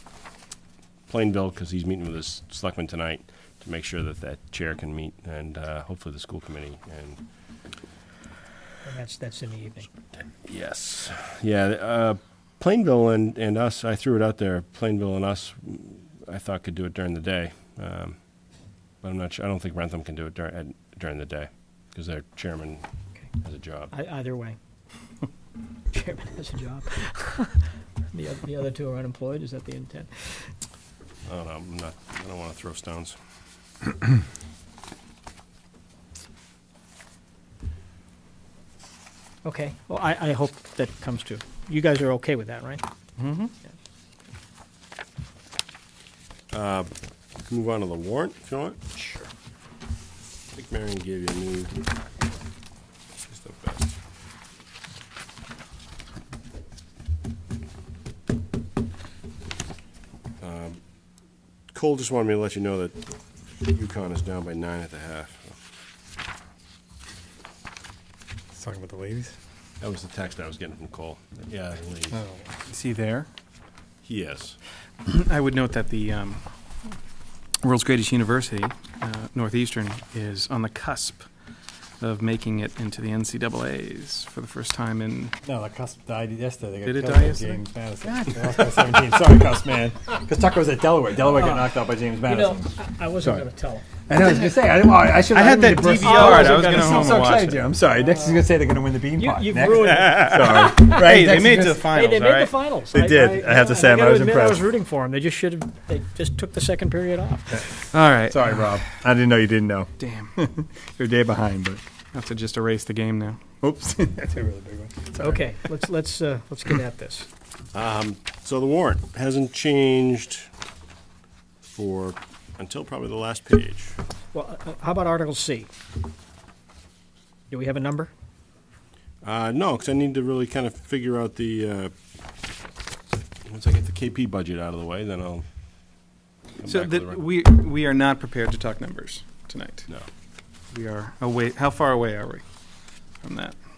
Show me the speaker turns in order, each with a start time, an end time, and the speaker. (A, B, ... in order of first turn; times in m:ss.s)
0:01.1-0:07.2 A
0:08.8-0:09.9 B
0:10.4-0:18.2 A
0:19.0-0:22.8 A
0:23.4-0:23.9 A
0:23.9-0:24.6 B
0:25.9-0:30.5 B
0:31.2-0:33.2 A
0:39.4-0:42.8 B
0:43.2-0:43.5 C
0:46.5-0:46.9 A
0:47.5-0:48.8 A
0:49.0-0:49.3 B
0:50.5-0:51.8 A
0:53.3-0:53.9 A
1:00.4-1:00.8 A
1:01.7-1:05.6 A
1:08.5-1:09.3 D
1:09.8-1:12.2 A
1:12.1-1:12.9 D
1:12.8-1:13.2 C
1:14.0-1:14.6 A
1:15.0-1:16.4 C
1:17.6-1:21.3 C
1:22.0-1:25.3 C
1:25.4-1:32.7 D
1:26.8-1:29.0 C
1:31.4-1:33.9 B
1:34.1-1:41.9 D
1:35.3-1:37.8 C
1:35.8-1:37.4 B
1:38.0-1:38.4 B
1:39.2-1:40.9 B
1:40.0-1:42.6 C
1:41.9-1:47.8 B
1:42.9-1:44.6 D
1:47.9-1:48.8 C
1:48.3-1:51.9 D
1:50.0-1:50.3 C
1:52.1-1:53.4 C
1:53.6-1:55.5 D
1:55.2-1:57.3 B
1:57.7-2:00.5 A
2:01.7-2:04.0 A
2:04.3-2:05.7 B
2:07.5-2:08.1 B
2:09.2-2:11.9 A
2:13.4-2:15.4 A
2:16.6-2:17.2 A
2:16.6-2:19.9 C
2:20.7-2:22.4 C
2:23.2-2:23.6 C